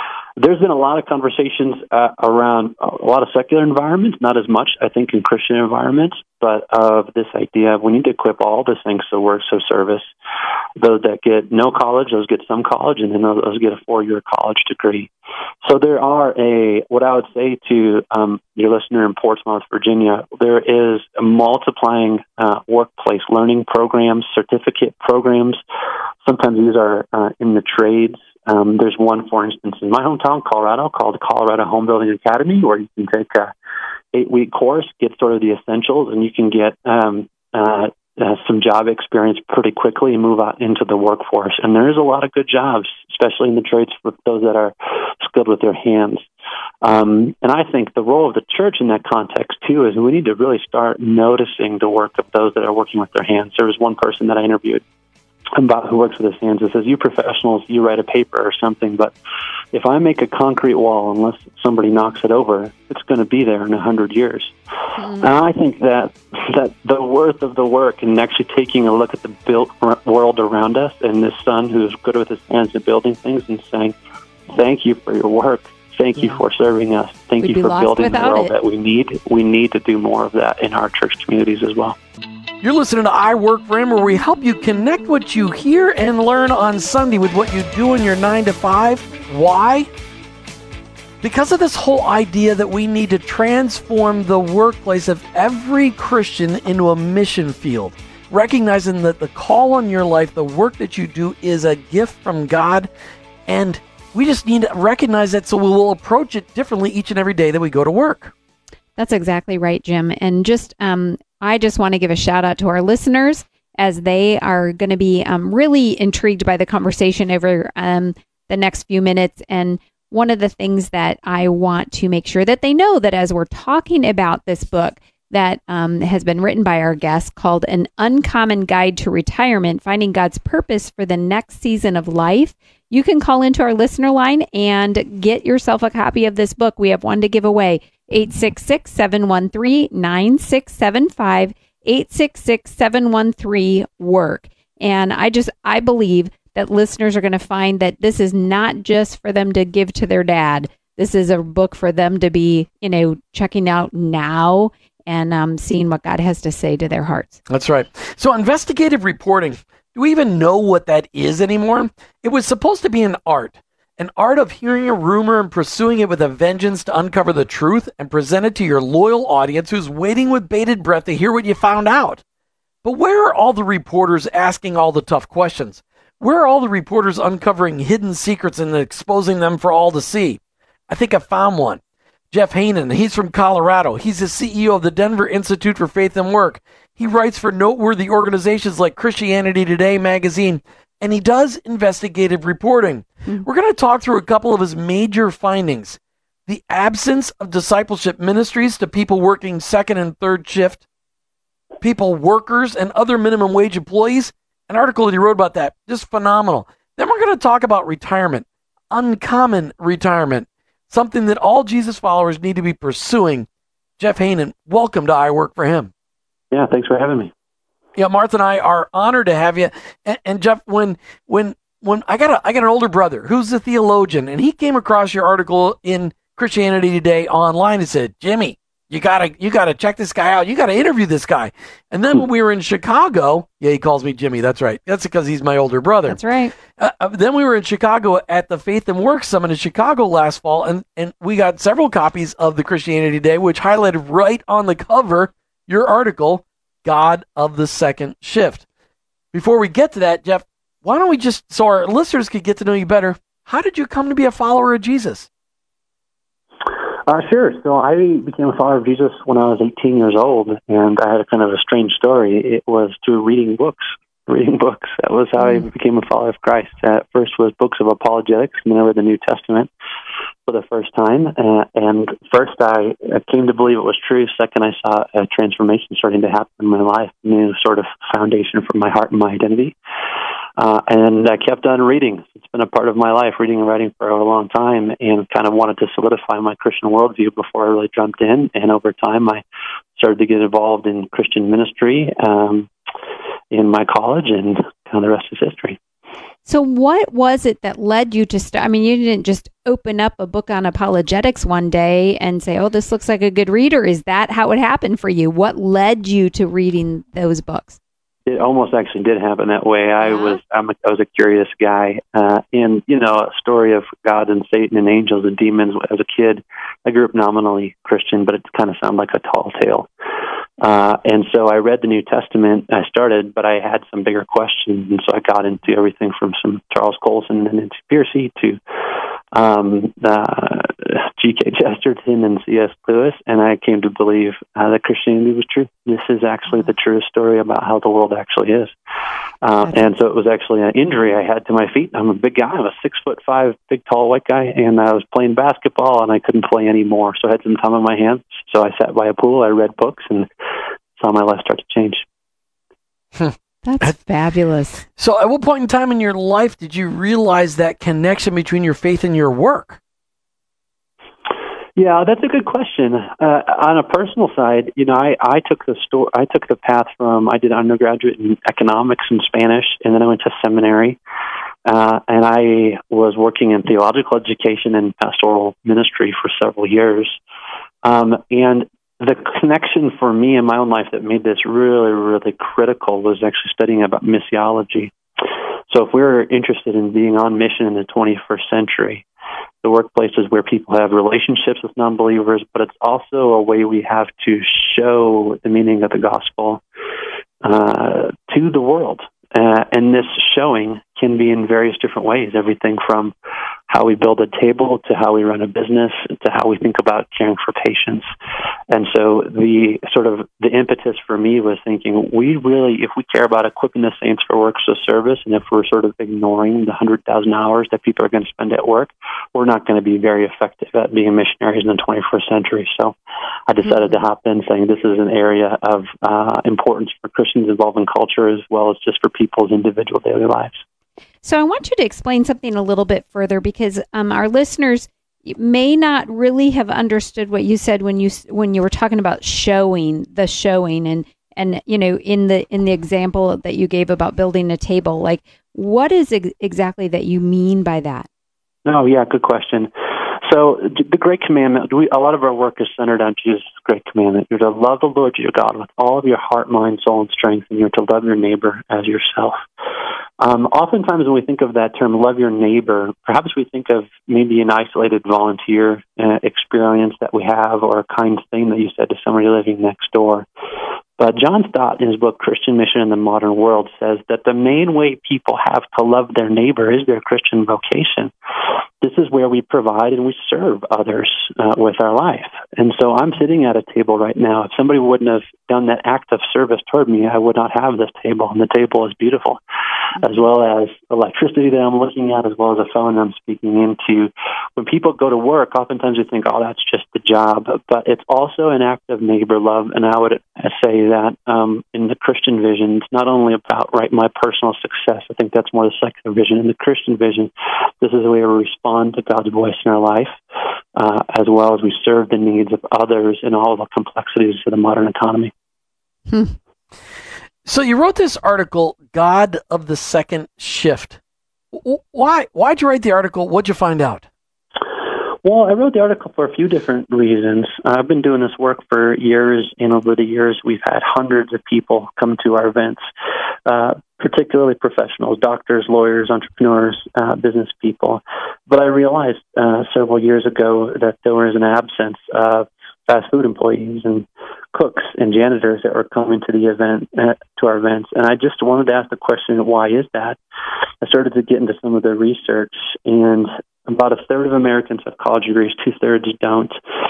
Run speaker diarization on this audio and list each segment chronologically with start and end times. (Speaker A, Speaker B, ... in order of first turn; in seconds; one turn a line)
Speaker A: 0.4-10.0
Speaker A: 10.8-15.1
Speaker A: 15.6-25.6
Speaker A: 26.2-33.5
Speaker A: 34.1-46.2
Speaker A: 46.8-54.8
Speaker A: 55.5-59.1
Speaker A: 59.7-64.5
Speaker B: 65.0-65.3
Speaker A: 65.1-73.9
Speaker A: 74.5-82.0
Speaker B: 77.4-78.5
Speaker C: 82.6-89.9
Speaker C: 91.2-102.9
Speaker C: 103.5-108.3
Speaker B: 109.0-157.4
Speaker C: 157.5-172.2
Speaker C: 172.8-200.8
Speaker C: 201.8-213.5
Speaker C: 214.0-215.9
Speaker A: 216.5-217.3
Speaker C: 217.9-236.2
Speaker B: 236.1-236.5
Speaker C: 236.7-248.6
Speaker C: 249.3-255.3
Speaker A: 257.1-269.7
Speaker A: 270.5-279.7
Speaker A: 280.6-289.4
Speaker A: 289.9-292.7
Speaker A: 293.5-295.8
Speaker B: 296.4-307.8
Speaker A: 308.3-319.9
Speaker B: 310.0-310.4
Speaker A: 320.6-328.6
Speaker A: 329.3-338.7
Speaker A: 339.4-350.3
Speaker A: 351.0-352.0
Speaker C: 353.2-353.9
Speaker B: 353.6-354.8
Speaker C: 355.0-359.8
Speaker A: 361.8-371.0
Speaker A: 371.6-377.2
Speaker A: 377.8-384.9
Speaker A: 385.7-389.0
Speaker A: 389.6-396.6
Speaker A: 397.4-403.1
Speaker A: 403.7-408.1
Speaker A: 408.7-422.9
Speaker A: 423.5-430.6
Speaker B: 431.2-448.1
Speaker A: 448.6-459.4
Speaker A: 460.2-470.2
Speaker A: 471.0-478.1
Speaker A: 478.8-489.4
Speaker A: 490.0-510.1
Speaker A: 510.7-515.3
Speaker B: 516.1-516.3
Speaker C: 517.4-521.0
Speaker C: 521.5-524.0
Speaker A: 525.2-532.8
Speaker A: 533.5-550.2
Speaker A: 550.8-556.5